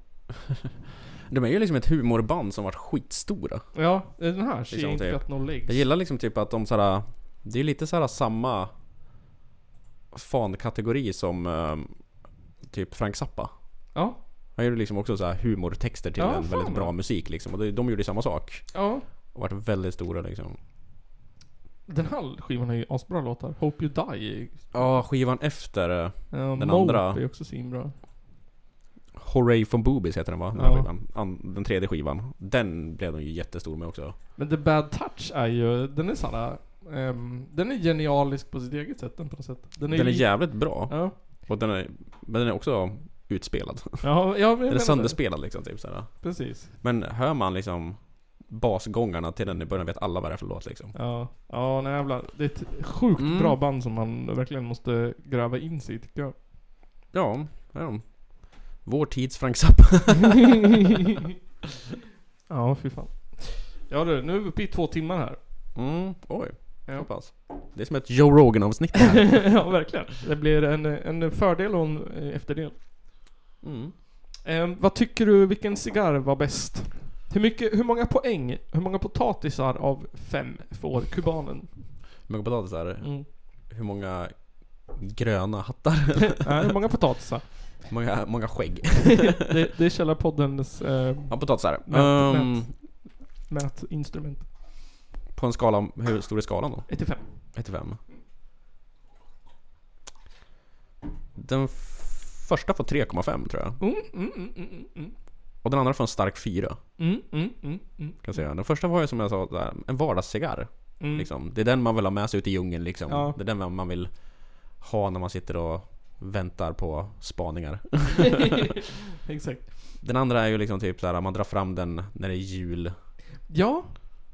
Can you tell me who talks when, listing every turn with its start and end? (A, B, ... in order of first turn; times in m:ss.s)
0:01.3-0:03.7 A
0:03.8-0:05.8 B
0:04.7-0:08.7 A
0:10.1-0:13.6 A
0:13.9-0:14.2 B
0:14.6-0:20.6 A
0:16.2-0:16.9 B
0:18.7-0:19.0 B
0:21.9-0:25.0 B
0:24.7-0:27.2 A
0:26.3-0:27.9 B
0:29.2-0:34.2 A
0:30.6-0:30.9 B
0:34.4-0:41.2 B
0:39.9-0:51.0 A
0:44.0-0:45.3 B
0:46.2-0:46.7 B
0:51.0-0:56.4 B
0:53.2-0:53.6 A
0:57.1-1:00.6 A
1:02.5-1:05.4 B
1:05.8-1:09.6 A
1:06.9-1:07.1 B
1:09.2-1:12.8 B
1:13.6-1:13.9 A
1:14.4-1:22.1 B
1:22.3-1:26.5 A
1:23.0-1:23.3 B
1:26.4-1:27.9 B
1:27.9-1:29.3 A
1:29.3-1:34.5 B
1:31.3-1:32.7 A
1:35.3-1:38.0 A
1:36.9-1:37.4 B
1:41.4-1:43.8 A
1:43.8-1:45.2 B
1:45.6-1:46.8 A
1:47.0-1:48.5 B
1:48.2-1:58.6 A
1:51.0-1:51.3 B
1:53.1-1:53.4 B
1:59.2-1:59.9 B
2:00.0-2:03.0 A
2:03.5-2:04.0 B